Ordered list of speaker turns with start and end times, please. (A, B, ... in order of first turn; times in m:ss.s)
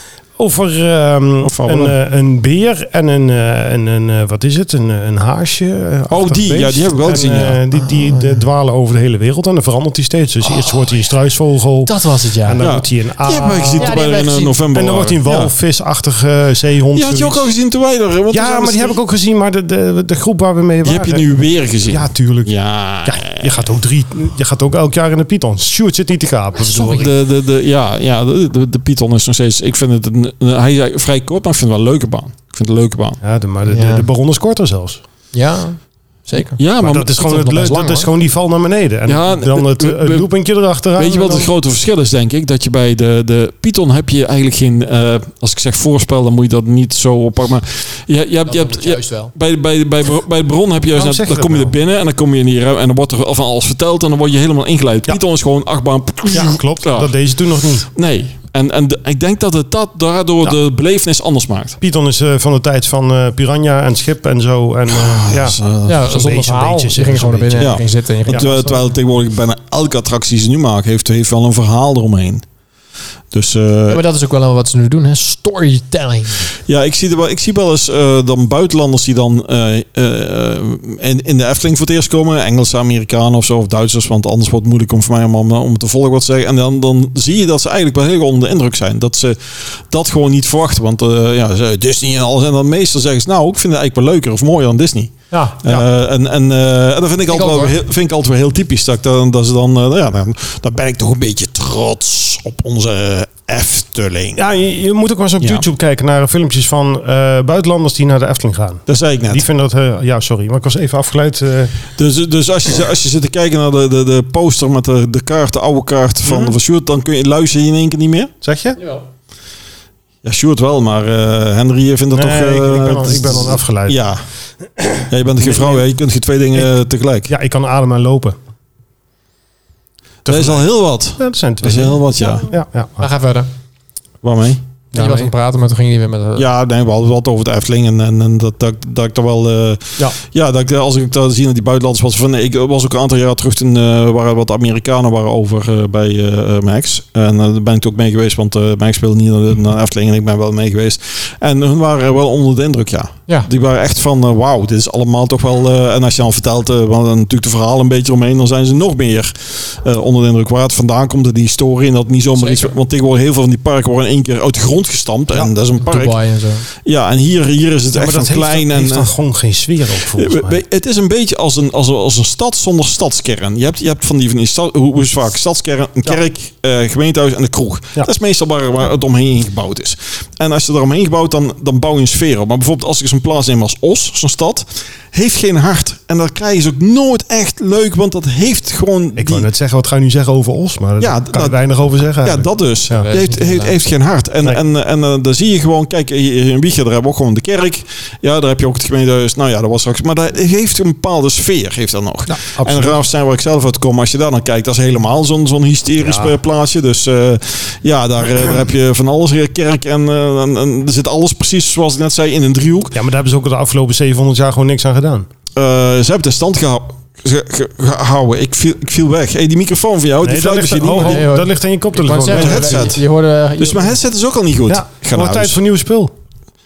0:00.4-0:14.0 A
0:01.4-0:02.0 B
0:06.1-0:07.6 B
0:08.0-0:08.2 C
0:11.8-0:12.6 C
0:12.6-0:15.5 B
0:13.8-0:14.6 C
0:14.7-0:17.5 A
0:16.9-0:19.0 B
0:18.3-0:21.2 A
0:20.8-0:23.6 B
0:21.9-0:27.1 A
0:26.7-0:33.2 B
0:33.2-0:35.0 A
0:33.7-0:34.1 C
0:35.3-0:38.1 C
0:36.6-0:37.3 B
0:36.8-0:41.5 A
0:39.0-0:40.3 B
0:40.9-0:57.1 B
0:48.4-0:49.3 C
0:50.9-0:51.7 A
0:56.3-0:57.9 A
0:57.9-1:01.8 B
1:01.8-1:08.5 A
1:04.9-1:06.0 B
1:05.8-1:08.8 C
1:07.6-1:12.4 B
1:13.3-1:14.0 B
1:13.9-1:16.5 C
1:16.7-1:44.4 B
1:35.3-1:35.8 C
1:37.3-1:37.8 C
1:44.3-1:51.7 A
1:48.9-1:49.4 B
1:52.0-1:58.3 B
1:56.2-1:56.6 A
1:58.4-1:58.8 A
1:58.8-1:59.0 C
2:00.2-2:04.2 B
2:02.1-2:04.0 A
2:04.8-2:05.8 A
2:05.1-2:07.3 B
2:07.3-2:08.4 A
2:10.2-2:10.6 A
2:10.2-2:12.4 B
2:11.2-2:13.1 A
2:13.0-2:13.5 C
2:14.2-2:14.6 B
2:14.9-2:15.3 A
2:14.9-2:16.4 C
2:16.4-2:46.2 B
2:42.4-2:42.7 C
2:45.8-2:46.6 C
2:46.7-2:49.1 B
2:47.9-2:50.6 A
2:50.1-3:09.5 B
3:09.2-3:13.1 A
3:11.0-3:11.6 B
3:12.1-3:33.0 B
3:12.9-3:13.7 C
3:22.3-3:23.0 A
3:26.0-3:26.4 A
3:32.9-3:35.3 A
3:35.6-3:41.3 B
3:40.2-3:42.9 A
3:41.0-3:44.0 C
3:42.3-3:43.0 B
3:43.6-3:45.6 B
3:44.7-3:46.1 A